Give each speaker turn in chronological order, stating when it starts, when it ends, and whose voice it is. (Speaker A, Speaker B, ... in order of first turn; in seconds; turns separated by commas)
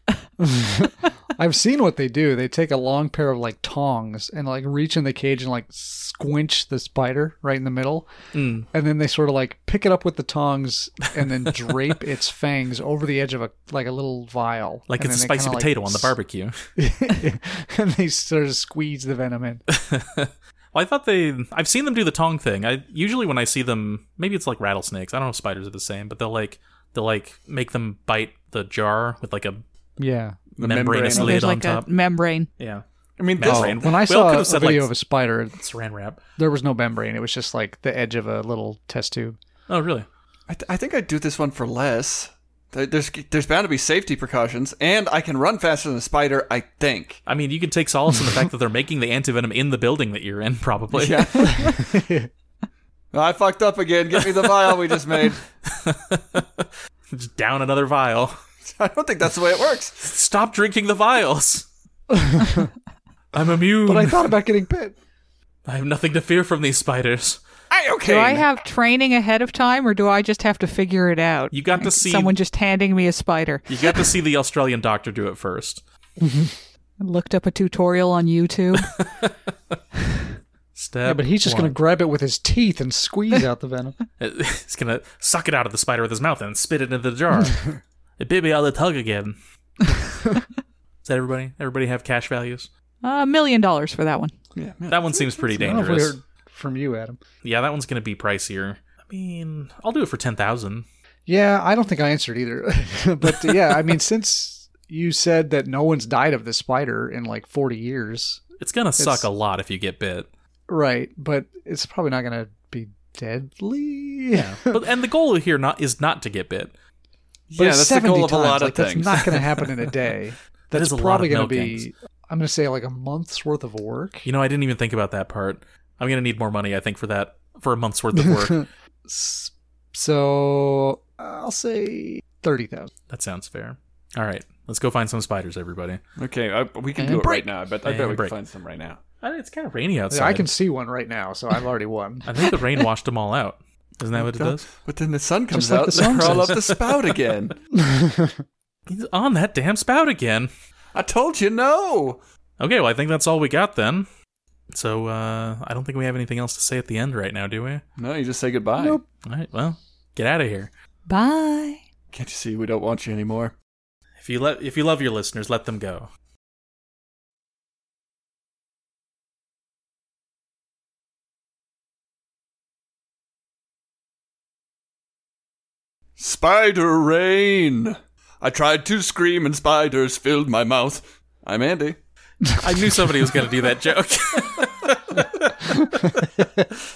Speaker A: 0.4-8.1, Speaker B: 8.3-8.7, Speaker A: 8.7-16.1, Speaker B: 14.9-16.6, Speaker A: 16.8-19.6, Speaker B: 19.7-29.6, Speaker A: 30.0-30.4, Speaker C: 30.6-31.6, Speaker B: 30.6-31.9, Speaker D: 31.1-32.5, Speaker B: 32.6-32.8, Speaker C: 33.2-33.8, Speaker B: 33.4-34.9, Speaker A: 33.4-35.6, Speaker B: 35.6-36.2, Speaker A: 36.4-39.4, Speaker B: 39.7-40.1, Speaker C: 40.5-47.2, Speaker B: 47.3-51.7, Speaker C: 50.9-51.7, Speaker A: 51.6-52.3, Speaker C: 53.1-55.4, Speaker B: 55.7-58.4, Speaker C: 58.6-60.0, Speaker B: 60.0-61.7, Speaker A: 62.1-62.7, Speaker B: 63.3-64.3, Speaker A: 63.9-65.0, Speaker B: 65.7-67.4, Speaker C: 67.7-68.5, Speaker D: 68.1-74.1, Speaker B: 71.5-72.3, Speaker B: 73.7-75.8, Speaker A: 76.2-76.5, Speaker D: 77.0-79.0, Speaker B: 78.8-79.3, Speaker B: 80.8-81.8, Speaker A: 81.0-84.0, Speaker B: 84.2-89.4, Speaker B: 91.0-92.7, Speaker D: 93.0-94.3, Speaker C: 94.6-95.4, Speaker B: 94.9-96.1, Speaker A: 95.5-97.2, Speaker B: 97.4-100.9, Speaker A: 101.3-108.4, Speaker B: 108.6-110.3, Speaker A: 109.0-109.2, Speaker A: 110.7-114.8, Speaker B: 114.3-116.7, Speaker C: 117.5-119.4, Speaker A: 117.6-124.2, Speaker B: 120.7-121.9, Speaker B: 124.2-128.7, Speaker A: 128.2-132.9, Speaker B: 133.1-136.0, Speaker C: 136.2-139.0, Speaker A: 137.0-137.4, Speaker B: 137.8-138.3, Speaker B: 139.2-140.5, Speaker A: 140.1-142.3, Speaker B: 142.2-144.7, Speaker C: 144.2-147.5, Speaker A: 145.5-146.6, Speaker B: 145.9-146.9, Speaker A: 147.7-148.4, Speaker B: 148.9-150.5, Speaker C: 150.9-152.2, Speaker B: 152.6-154.1, Speaker B: 154.7-157.8, Speaker C: 158.0-159.0, Speaker B: 159.2-160.7, Speaker D: 161.1-161.8, Speaker C: 162.1-163.5, Speaker B: 164.2-166.1, Speaker C: 176.2-182.0, Speaker B: 182.6-186.0, Speaker A: 185.7-186.7